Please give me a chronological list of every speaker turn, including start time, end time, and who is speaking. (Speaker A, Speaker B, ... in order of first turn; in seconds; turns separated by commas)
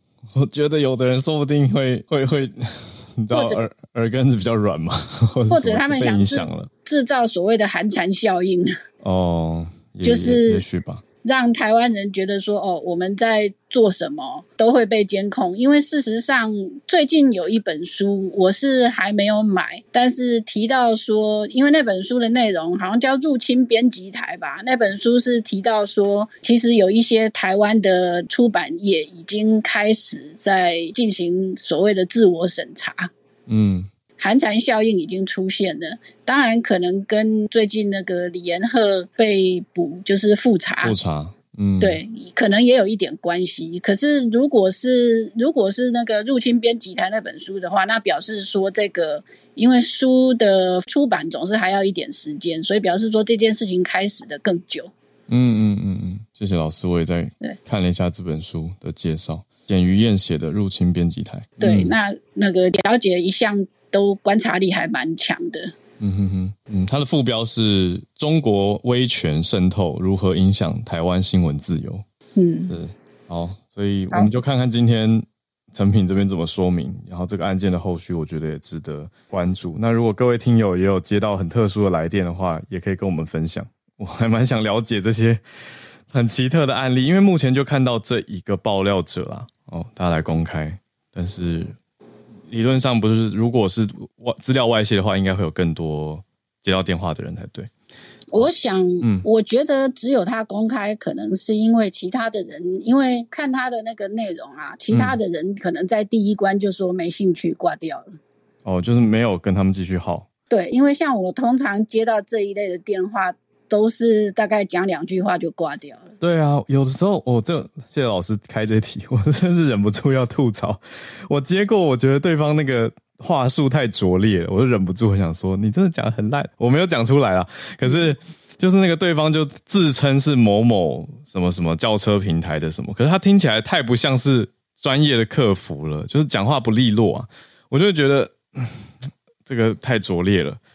Speaker A: 0.3-6.7, Speaker B: 3.3-3.6, Speaker B: 5.5-8.7, Speaker A: 9.0-11.0, Speaker B: 10.0-10.6, Speaker B: 11.2-33.1, Speaker A: 33.5-33.9, Speaker B: 34.2-40.9, Speaker A: 40.8-42.0, Speaker B: 41.8-54.9, Speaker A: 55.3-61.9, Speaker B: 61.6-65.7, Speaker A: 66.0-72.0, Speaker B: 72.3-72.7, Speaker A: 72.6-85.4, Speaker A: 86.1-91.8, Speaker A: 92.5-97.7, Speaker B: 98.3-108.1, Speaker A: 99.0-99.2, Speaker A: 104.9-105.2, Speaker A: 108.6-110.3, Speaker B: 110.5-116.1, Speaker A: 116.2-140.6